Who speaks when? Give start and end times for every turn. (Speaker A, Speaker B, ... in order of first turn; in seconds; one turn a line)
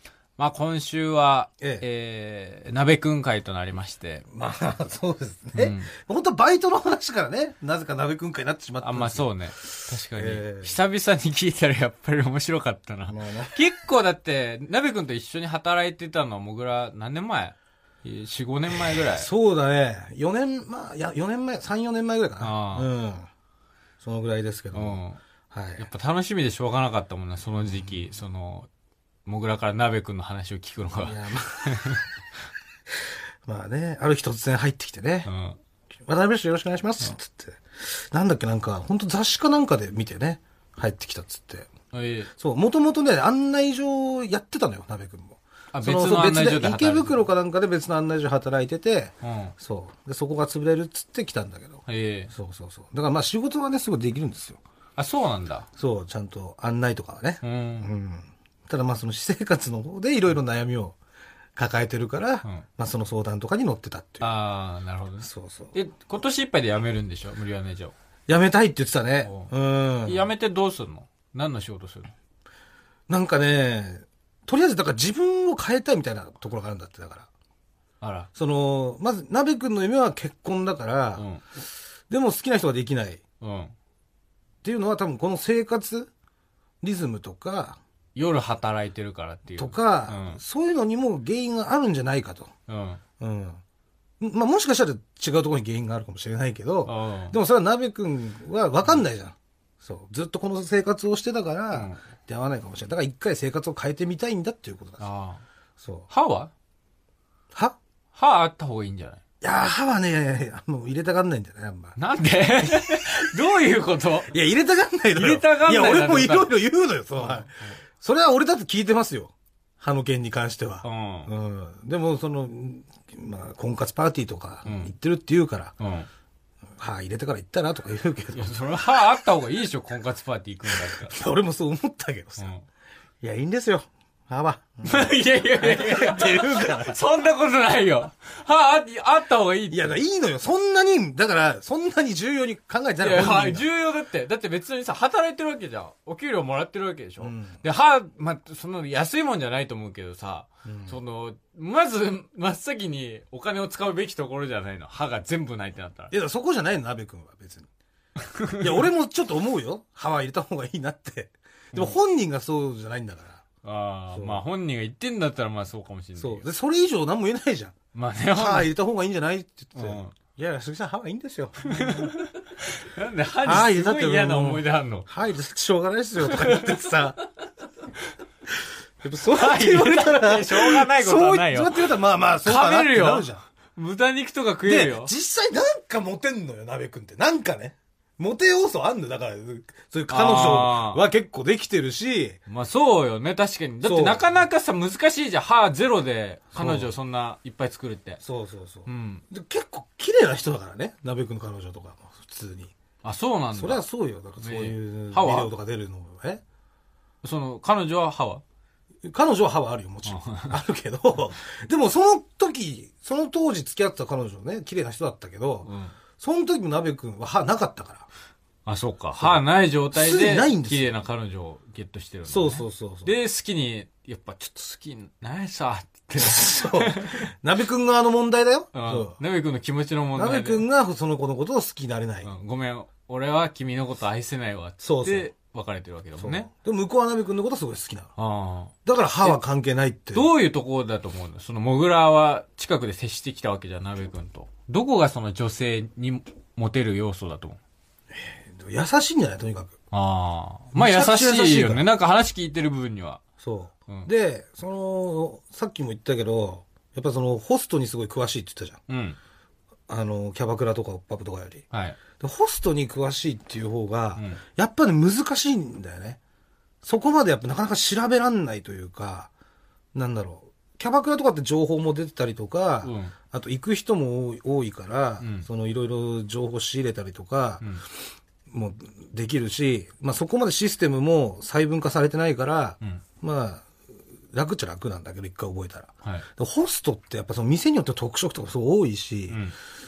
Speaker A: 0.4-4.2
Speaker B: 4.3-10.8
Speaker A: 5.6-5.9
Speaker A: 8.8-19.3
Speaker B: 13.1-13.6
Speaker B: 19.0-23.3
Speaker A: 22.4-22.9
Speaker B: 24.0-25.9
Speaker A: 24.7-25.2
Speaker A: 25.8-28.7
Speaker A: 29.3-32.0
Speaker B: 31.0-32.0
Speaker B: 33.1-35.3
Speaker A: 35.3-35.6
Speaker B: 36.1-41.7
Speaker A: 41.9-42.3
Speaker B: 42.4-54.6
Speaker A: 45.7-47.3
Speaker A: 49.2-49.5
Speaker A: 51.9-52.3
Speaker A: 55.0-55.7
Speaker B: 55.8-61.0
Speaker A: 57.4-57.9
Speaker B: 61.6-64.3
Speaker A: 64.2-67.9
Speaker B: 65.2-65.8
Speaker B: 68.3-70.3
Speaker A: 69.2-69.5
Speaker A: 70.1-72.1
Speaker B: 73.1-77.3
Speaker A: 78.0-78.3
Speaker B: 78.3-81.3
Speaker A: 81.2-81.4
Speaker B: 82.1-83.2
Speaker A: 83.4-83.7
Speaker B: 84.6-86.1
Speaker B: 86.8-87.8
Speaker A: 88.2-90.4
Speaker B: 89.6-92.5
Speaker A: 92.7-93.0
Speaker B: 93.2-93.6
Speaker B: 94.2-105.0
Speaker A: 96.9-97.4
Speaker A: 101.7-102.0
Speaker A: 105.0-105.4
Speaker B: 105.8-106.1
Speaker A: 106.1-106.5
Speaker A: 108.1-109.2
Speaker B: 109.4-112.0
Speaker A: 112.0-114.3
Speaker B: 114.3-125.8
Speaker A: 115.2-116.5
Speaker A: 117.2-117.8
Speaker A: 120.8-121.3
Speaker A: 124.7-124.9
Speaker A: 125.8-126.1
Speaker B: 126.8-128.6
Speaker A: 128.3-131.2
Speaker B: 130.7-132.5
Speaker A: 132.4-132.7
Speaker B: 133.2-137.0
Speaker A: 134.8-140.0
Speaker B: 139.7-143.7
Speaker A: 143.0-156.1
Speaker B: 147.2-147.6
Speaker B: 150.7-151.0
Speaker B: 156.1-157.7
Speaker A: 158.2-158.7
Speaker B: 158.6-163.4
Speaker A: 163.6-166.5
Speaker B: 164.1-164.4
Speaker B: 166.2-167.8
Speaker A: 167.9-168.7
Speaker B: 168.3-172.1
Speaker A: 169.8-170.2
Speaker A: 171.7-175.1
Speaker B: 173.4-177.2
Speaker A: 176.3-176.6
Speaker B: 179.0-183.4
Speaker A: 179.3-185.1
Speaker B: 184.7-192.4
Speaker A: 190.1-191.0
Speaker A: 192.5-198.2
Speaker B: 193.8-194.4
Speaker B: 196.5-196.9
Speaker B: 198.2-202.7
Speaker A: 198.9-199.2
Speaker A: 203.0-203.8
Speaker B: 203.5-206.4
Speaker A: 204.4-205.5
Speaker A: 207.2-208.4
Speaker B: 209.0-218.1
Speaker A: 210.1-210.6
Speaker A: 215.7-215.9
Speaker A: 218.7-227.3
Speaker B: 219.2-220.9
Speaker B: 222.3-223.1
Speaker B: 226.2-229.2
Speaker A: 228.7-230.7
Speaker B: 230.1-232.3
Speaker A: 232.2-236.5
Speaker B: 234.8-235.3
Speaker B: 236.2-238.1
Speaker A: 238.2-239.4
Speaker B: 238.9-240.3
Speaker A: 240.1-247.6
Speaker B: 248.1-249.7
Speaker A: 249.9-253.2
Speaker B: 250.7-251.8
Speaker B: 253.4-258.8
Speaker A: 258.9-259.2
Speaker B: 259.9-261.6
Speaker A: 261.7-262.0
Speaker B: 262.2-266.2
Speaker A: 264.1-264.4
Speaker B: 266.8-269.3
Speaker B: 269.9-277.6
Speaker A: 272.8-273.1
Speaker A: 275.2-275.5
Speaker B: 278.5-283.7
Speaker B: 284.3-289.4